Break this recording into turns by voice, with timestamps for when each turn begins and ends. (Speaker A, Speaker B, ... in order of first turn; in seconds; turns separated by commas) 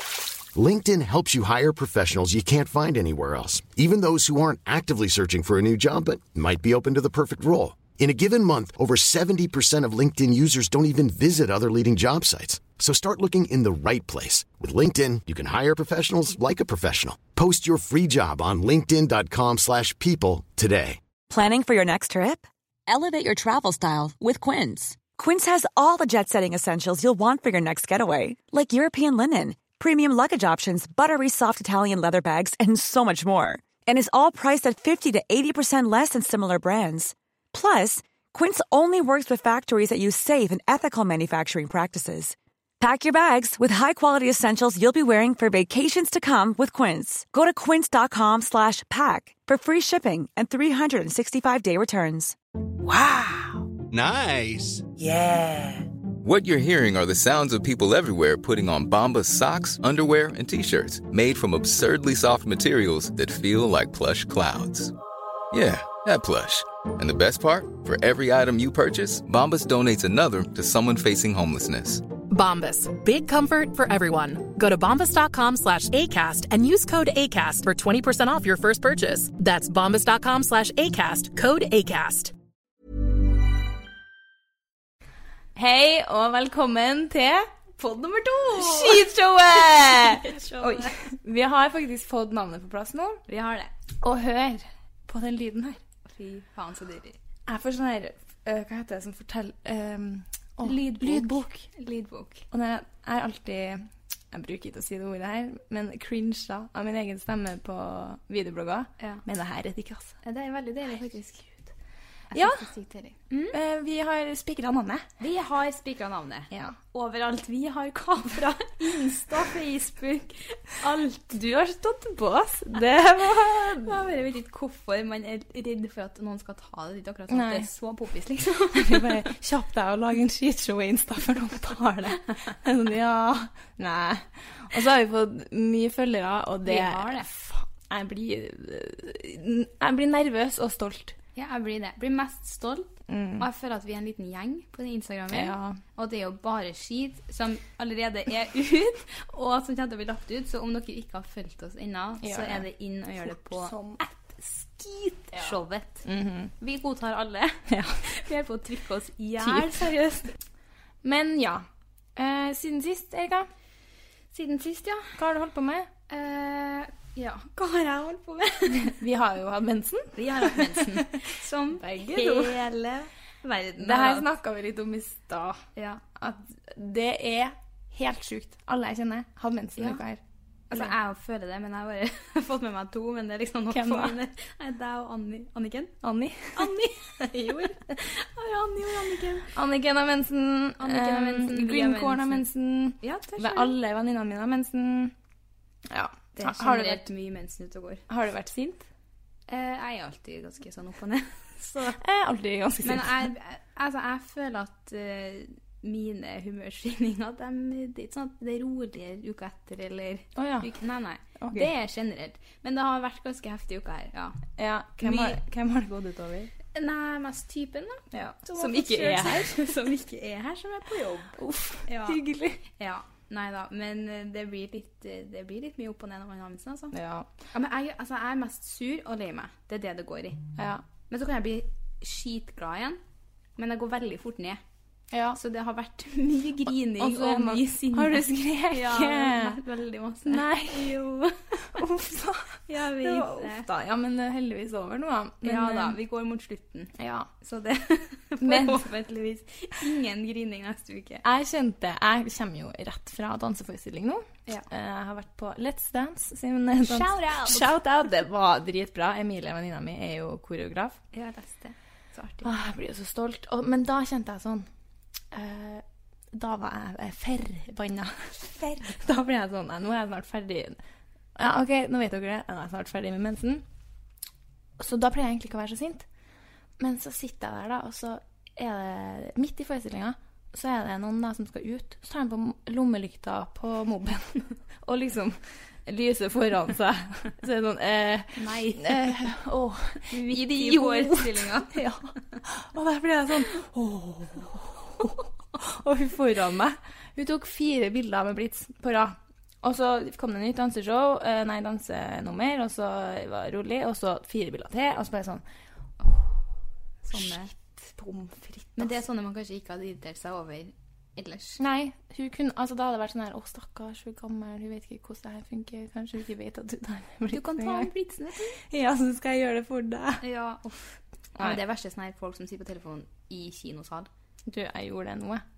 Speaker A: 0.5-21.0, Speaker B: 21.3-52.4, Speaker C: 52.8-55.9, Speaker D: 56.2-64.9, Speaker D: 65.5-72.0, Speaker E: 72.3-82.3, Speaker F: 85.5-87.5, Speaker G: 87.8-91.1, Speaker F: 88.5-93.2, Speaker G: 93.3-93.7, Speaker F: 94.0-95.8, Speaker G: 96.1-97.2, Speaker F: 97.5-101.7, Speaker G: 100.6-102.5, Speaker F: 102.5-110.2, Speaker G: 110.2-111.7, Speaker G: 112.3-113.6, Speaker F: 112.3-112.7, Speaker F: 113.5-115.0, Speaker G: 115.2-121.3, Speaker F: 116.5-116.8, Speaker F: 121.2-124.0, Speaker G: 123.6-129.2, Speaker F: 127.3-127.7, Speaker F: 128.7-141.2, Speaker G: 136.6-137.3, Speaker G: 141.3-156.1, Speaker F: 143.1-143.5, Speaker F: 145.3-145.8, Speaker F: 152.2-152.7, Speaker F: 153.2-154.0, Speaker F: 155.3-156.5, Speaker G: 156.6-160.4, Speaker F: 157.7-158.0, Speaker F: 159.4-159.9, Speaker F: 161.0-163.5, Speaker G: 164.3-165.2, Speaker F: 165.2-165.9, Speaker G: 166.1-168.9, Speaker F: 168.8-171.0, Speaker G: 170.2-174.3, Speaker F: 171.7-172.7, Speaker F: 173.8-175.6, Speaker G: 175.8-176.0, Speaker F: 176.2-180.2, Speaker G: 179.8-180.0, Speaker G: 180.7-185.9, Speaker F: 183.7-184.2, Speaker F: 186.0-186.7, Speaker G: 186.5-189.5, Speaker F: 189.5-195.1, Speaker G: 190.8-192.5, Speaker G: 193.0-193.8, Speaker F: 195.9-197.1, Speaker G: 196.3-198.0, Speaker F: 198.1-198.9, Speaker G: 199.5-202.0, Speaker F: 201.9-203.3, Speaker G: 202.8-214.4, Speaker F: 210.4-210.7, Speaker F: 211.4-211.7, Speaker F: 214.6-216.5, Speaker G: 215.0-215.4, Speaker G: 216.7-226.9, Speaker F: 218.1-219.7, Speaker F: 221.4-222.6, Speaker F: 226.9-227.3, Speaker G: 227.5-230.5, Speaker F: 230.6-230.8, Speaker G: 231.1-233.0, Speaker G: 233.6-234.6, Speaker F: 235.1-235.4, Speaker G: 235.3-241.8, Speaker F: 237.0-239.6, Speaker F: 240.3-241.0, Speaker F: 241.7-246.0, Speaker G: 242.7-243.7, Speaker G: 245.4-251.2, Speaker F: 247.0-247.3, Speaker F: 248.4-248.9, Speaker F: 251.2-261.0, Speaker G: 256.8-257.7, Speaker G: 261.1-262.6, Speaker F: 262.4-264.7, Speaker F: 265.3-270.8, Speaker F: 271.4-273.6, Speaker F: 274.8-276.1, Speaker F: 276.8-305.4, Speaker G: 288.4-289.2, Speaker G: 290.1-291.8, Speaker G: 307.0-307.5, Speaker F: 307.1-309.0, Speaker G: 308.8-311.6, Speaker F: 311.6-317.9, Speaker G: 317.3-318.6, Speaker F: 318.7-320.2, Speaker G: 320.2-324.1, Speaker F: 324.5-325.4